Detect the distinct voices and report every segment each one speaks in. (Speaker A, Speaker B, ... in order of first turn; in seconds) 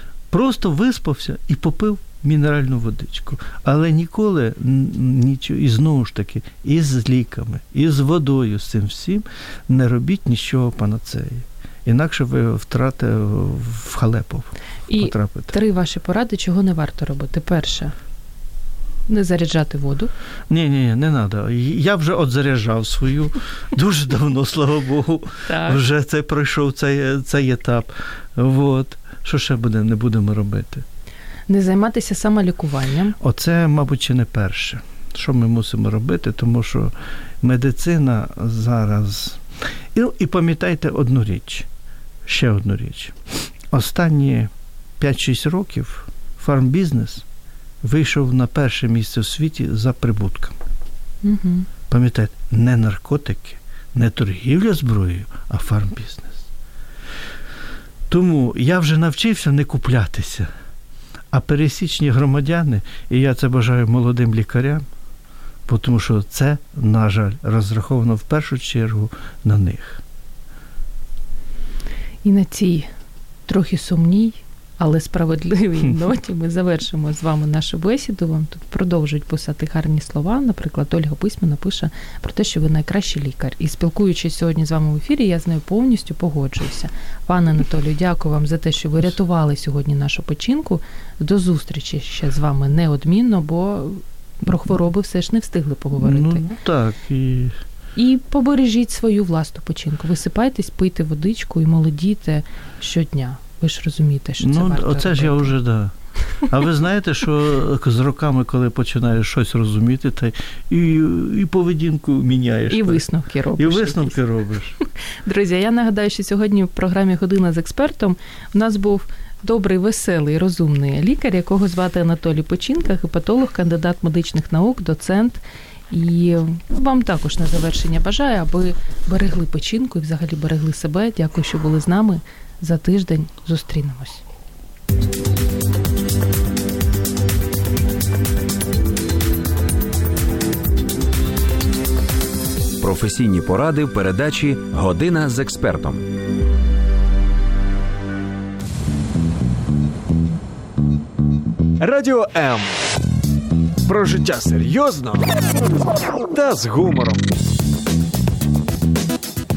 Speaker A: 0.3-15.6, 20.5-30.8, 33.2-39.4, 39.9-41.7, 42.2-47.2, 47.8-50.6, 51.9-56.5, 58.1-60.5, 61.3-64.8, 65.7-70.0, 96.0-97.6, 104.4-105.9, 106.5-113.0, 113.6-114.8
Speaker B: 14.9-17.9, 19.1-20.1, 25.5-25.8, 31.5-33.2, 51.2-51.7, 72.2-72.9, 73.5-96.5, 98.0-105.5, 112.7-114.2, 114.9-134.2
Speaker C: 142.8-146.0
Speaker D: 151.8-153.0, 153.9-155.3, 156.3-157.3